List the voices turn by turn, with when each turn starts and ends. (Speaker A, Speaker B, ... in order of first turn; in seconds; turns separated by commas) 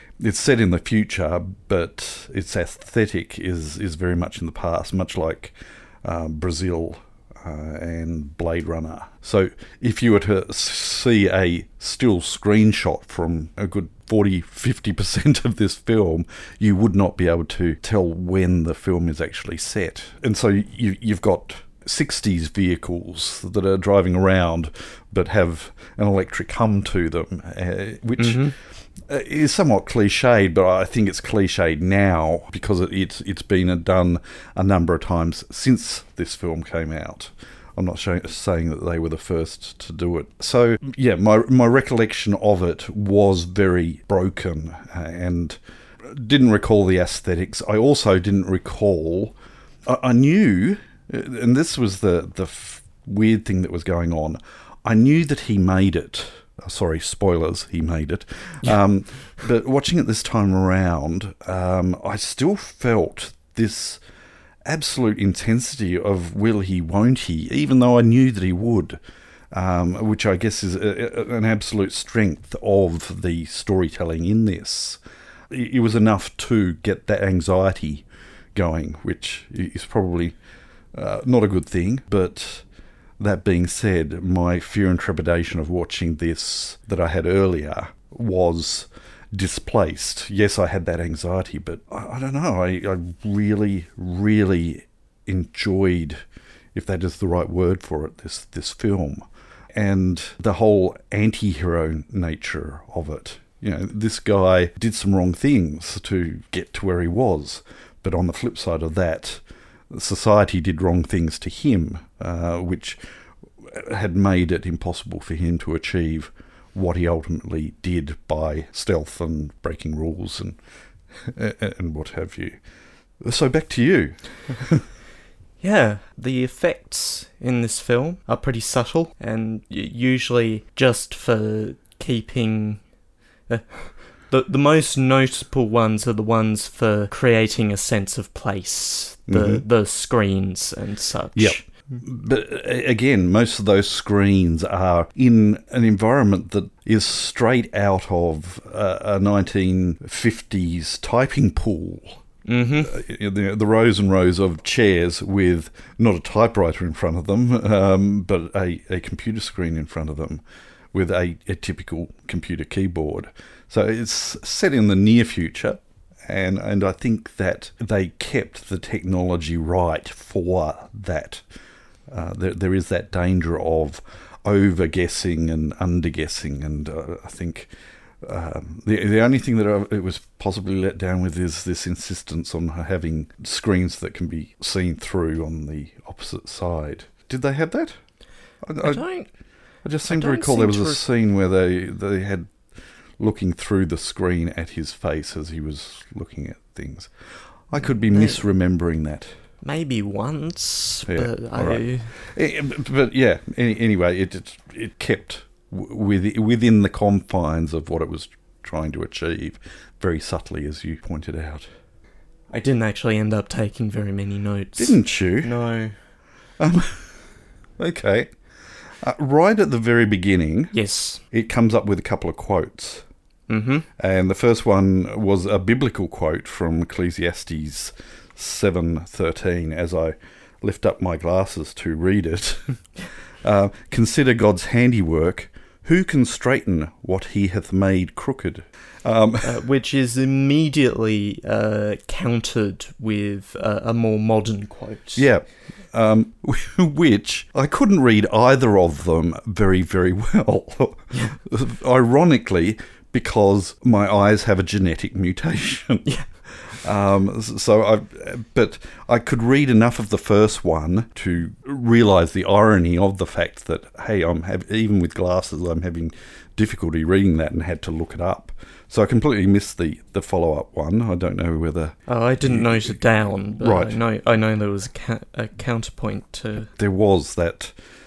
Speaker A: 0.2-28.6, Speaker B: 28.2-28.5, Speaker A: 29.1-64.0, Speaker A: 64.7-69.0, Speaker A: 69.5-80.4, Speaker A: 80.9-82.6, Speaker A: 83.2-96.2, Speaker A: 96.7-113.0, Speaker A: 113.6-120.6, Speaker A: 121.2-122.6, Speaker A: 123.2-124.8, Speaker B: 125.6-132.8, Speaker B: 133.5-141.6, Speaker A: 139.3-139.7, Speaker A: 141.4-152.2, Speaker B: 152.5-153.0, Speaker A: 152.8-160.4, Speaker A: 160.9-171.4, Speaker A: 172.1-177.7, Speaker A: 178.2-188.0, Speaker A: 188.6-189.0, Speaker B: 188.8-189.3, Speaker A: 189.8-192.5, Speaker B: 190.1-191.0, Speaker A: 193.2-197.1, Speaker A: 197.7-199.3, Speaker B: 198.1-198.4, Speaker B: 199.6-202.1, Speaker A: 201.1-211.7, Speaker B: 212.5-215.9, Speaker A: 214.8-215.5, Speaker A: 216.6-217.1, Speaker A: 217.8-218.3, Speaker A: 219.0-220.7, Speaker B: 220.7-221.2, Speaker A: 221.3-223.0, Speaker B: 223.5-223.9, Speaker A: 224.0-232.8, Speaker A: 233.4-239.6, Speaker B: 239.4-245.3, Speaker A: 245.2-256.1, Speaker B: 251.1-251.4, Speaker A: 256.7-273.0, Speaker B: 272.1-276.7, Speaker A: 273.6-274.0, Speaker A: 276.8-277.7